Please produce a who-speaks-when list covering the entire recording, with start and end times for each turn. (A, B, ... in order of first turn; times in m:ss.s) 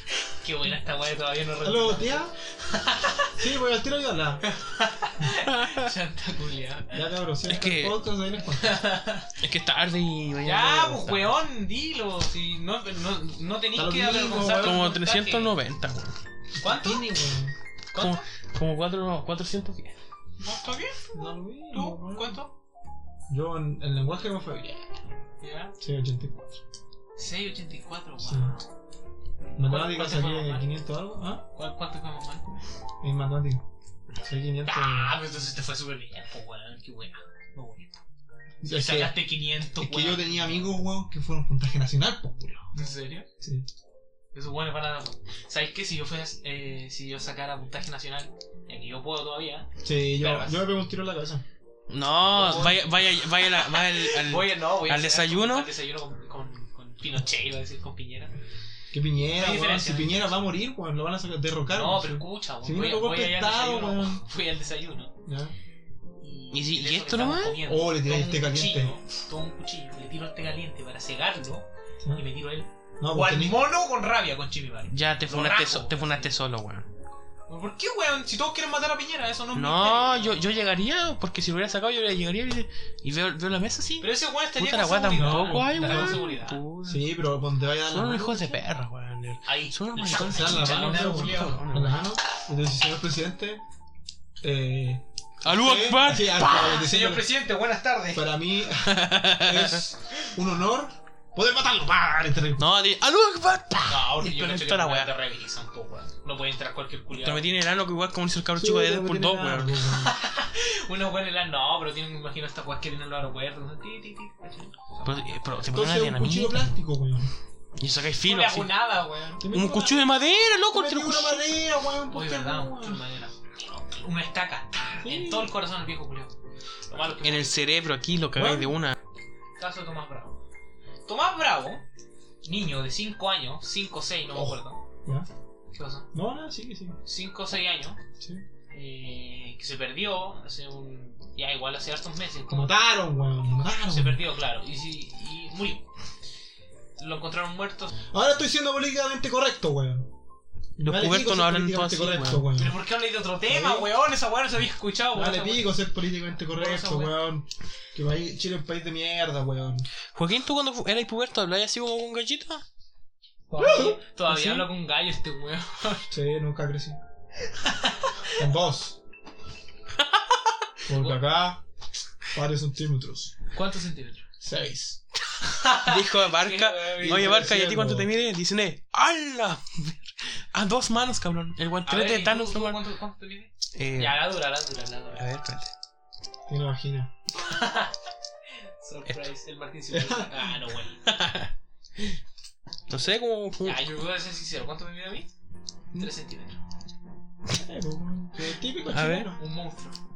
0:00.2-0:03.4 A
0:01.6-0:02.3 B
0:03.3-0:04.4 B
0:04.4-0:07.0 A
0:05.4-0:05.9 C
0:06.9-0:08.8 B
0:07.4-0:08.0 C
0:08.6-0:09.4 A
0:09.4-0:11.4 C
0:10.4-0:15.6 A
0:13.7-0:14.8 B
0:14.5-0:16.1 C
0:16.6-0:17.5 B
0:16.6-0:17.1 A
0:17.9-0:18.2 A
0:18.0-0:19.9 C
0:20.4-0:21.0 A
0:21.1-0:22.4 B
0:21.7-0:22.5 A
0:23.3-0:24.9 B
0:25.4-0:25.7 A
0:25.8-0:26.6 B
0:27.2-0:28.7 A
0:28.2-0:28.5 B
0:29.5-0:30.7 A
0:29.6-0:31.4 B
0:31.5-0:32.5 A
0:33.0-0:33.6 B
0:34.2-0:35.1 B
0:34.6-0:38.0 A
0:38.6-0:42.7 B
0:38.6-0:40.7 A
0:42.7-0:43.3 A
0:43.4-0:43.7 B
0:44.3-0:50.6 A
0:49.8-0:51.4 B
0:51.9-0:55.7 C
0:52.3-0:58.3 A
0:58.9-1:04.2 B
0:59.4-1:00.4 A
1:01.7-1:05.1 A
1:05.2-1:05.5 B
1:06.2-1:16.3 A
1:06.5-1:07.6 C
1:07.6-1:09.0 B
1:13.0-1:13.7 B
1:14.9-1:16.9 C
1:17.5-1:20.4 A
1:19.5-1:27.1 C
1:24.0-1:26.6 A
1:25.1-1:26.2 B
1:26.8-1:28.6 B
1:27.8-1:32.0 C
1:29.4-1:31.6 A
1:30.2-1:33.6 B
1:34.4-1:37.3 B
1:35.4-1:36.8 C
1:36.6-1:38.2 A
1:38.1-1:42.6 B
1:38.8-1:39.8 C
1:42.6-1:45.1 C
1:43.9-1:47.5 A
1:47.2-1:50.0 C
1:48.5-1:50.1 B
1:49.9-1:55.4 A
1:55.0-1:56.7 C
1:55.7-1:57.3 B
1:57.8-1:58.8 C
1:58.2-1:59.5 A
1:59.4-2:00.1 B
1:59.5-2:01.5 C
2:00.7-2:03.0 B
2:02.1-2:06.3 A
2:05.0-2:05.5 B
2:06.9-2:07.6 A
2:07.2-2:09.0 C
2:08.4-2:08.8 B
2:09.6-2:10.4 A
2:11.0-2:11.8 A
2:12.4-2:14.8 A
2:14.3-2:15.3 B
2:15.8-2:16.1 A
2:16.1-2:17.0 B
2:17.0-2:18.0 A
2:18.7-2:22.8 A
2:22.5-2:24.2 B
2:23.7-2:25.8 A
2:27.0-2:28.0 A
2:28.1-2:30.1 B
2:30.8-2:32.8 B
2:30.8-2:32.5 C
2:32.5-2:35.8 A
2:33.4-2:33.9 B
2:35.1-2:39.9 B
2:36.5-2:37.2 A
2:40.1-2:42.6 C
2:43.5-2:46.1 A
2:43.6-2:44.0 B
2:44.3-2:44.6 C
2:46.1-2:47.0 B
2:47.6-2:48.3 A
2:48.3-2:49.0 B
2:50.9-2:51.6 B
2:52.3-2:53.3 B
2:53.5-2:54.2 A
2:54.4-2:55.0 B
2:55.4-2:57.4 A
2:55.6-3:02.8 C
2:57.0-2:58.1 B
3:01.8-3:05.2 A
3:03.7-3:04.4 C
3:05.2-3:05.7 C
3:06.5-3:07.1 B
3:07.4-3:07.9 A
3:08.8-3:11.0 A
3:09.9-3:10.5 B
3:11.0-3:12.2 C
3:12.9-3:13.9 C
3:13.6-3:15.3 A
3:16.0-3:16.6 A
3:17.5-3:19.4 B
3:18.9-3:19.3 C
3:19.4-3:20.0 A